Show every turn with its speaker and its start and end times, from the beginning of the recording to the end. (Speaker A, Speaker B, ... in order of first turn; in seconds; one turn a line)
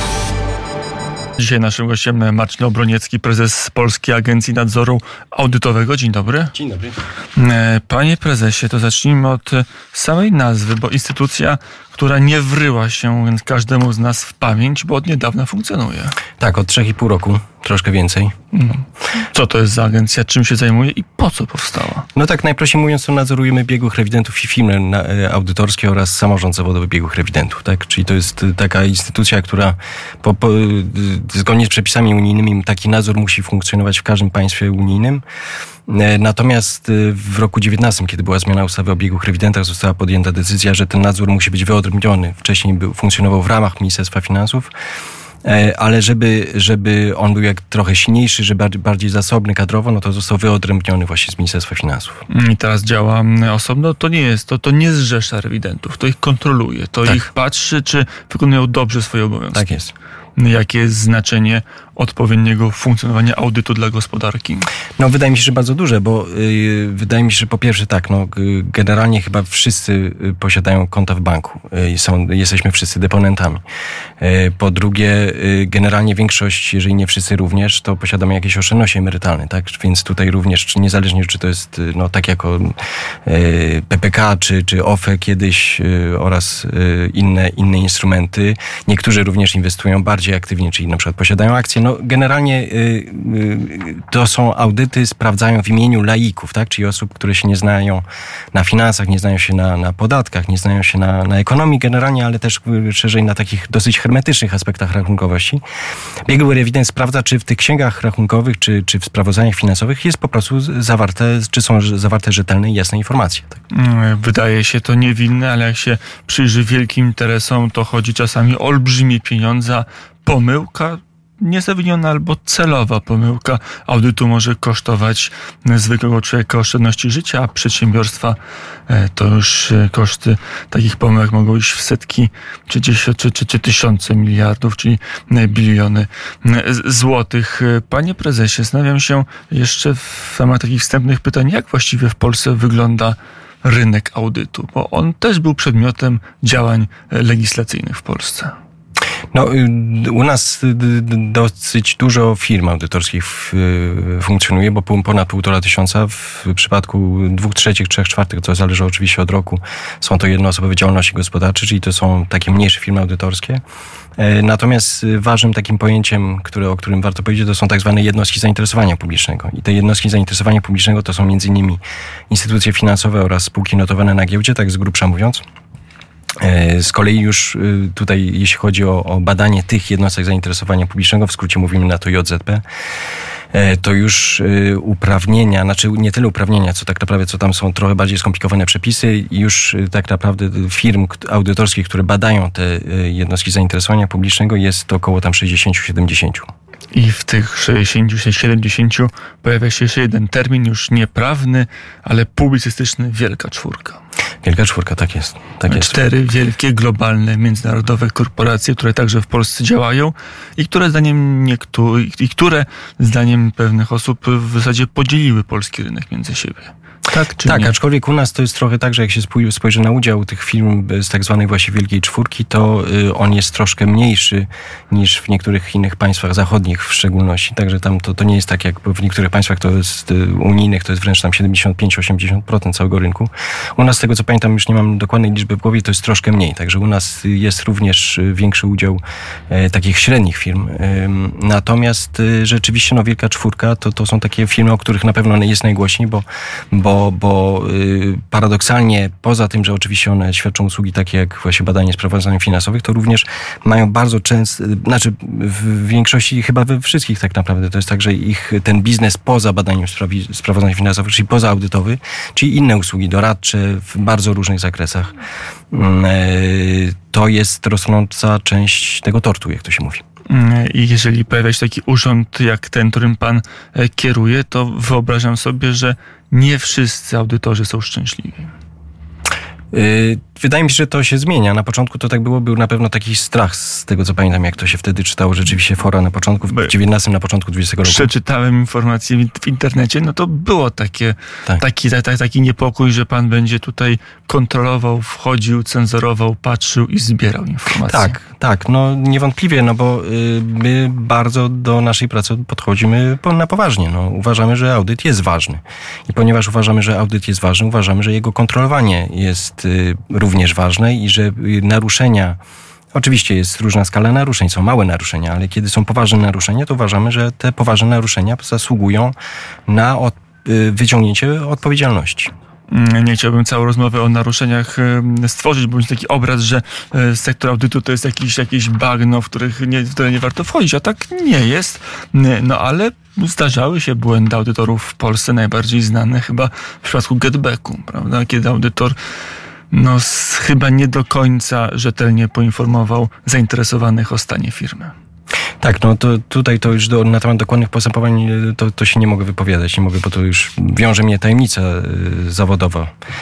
Speaker A: 1.4-6.5
Speaker B: 6.5-7.0
Speaker A: 7.4-16.2
Speaker B: 16.4-18.3
Speaker A: 18.5-22.1
Speaker B: 22.2-35.2
Speaker B: 35.9-44.7
Speaker B: 45.4-52.2
Speaker A: 52.3-59.7
Speaker B: 59.5-59.9
Speaker A: 60.4-64.7
Speaker B: 65.0-73.6
Speaker B: 74.2-82.8
Speaker B: 83.3-105.6
Speaker B: 106.3-113.6
Speaker A: 113.7-128.4
Speaker A: 128.9-148.5
Speaker B: 149.3-163.6
Speaker B: 164.2-175.4
Speaker B: 176.4-182.6
Speaker B: 183.5-196.5
Speaker A: 196.9-204.0
Speaker B: 204.4-206.0
Speaker A: 205.7-217.7
Speaker B: 217.1-265.1
Speaker B: 265.7-270.0
Speaker A: 270.3-278.5
Speaker B: 279.7-288.1
Speaker A: 287.8-298.1
Speaker B: 297.8-312.4
Speaker B: 312.9-319.1
Speaker B: 319.7-322.3
Speaker A: 322.7-338.9
Speaker A: 339.7-344.9
Speaker B: 345.6-352.9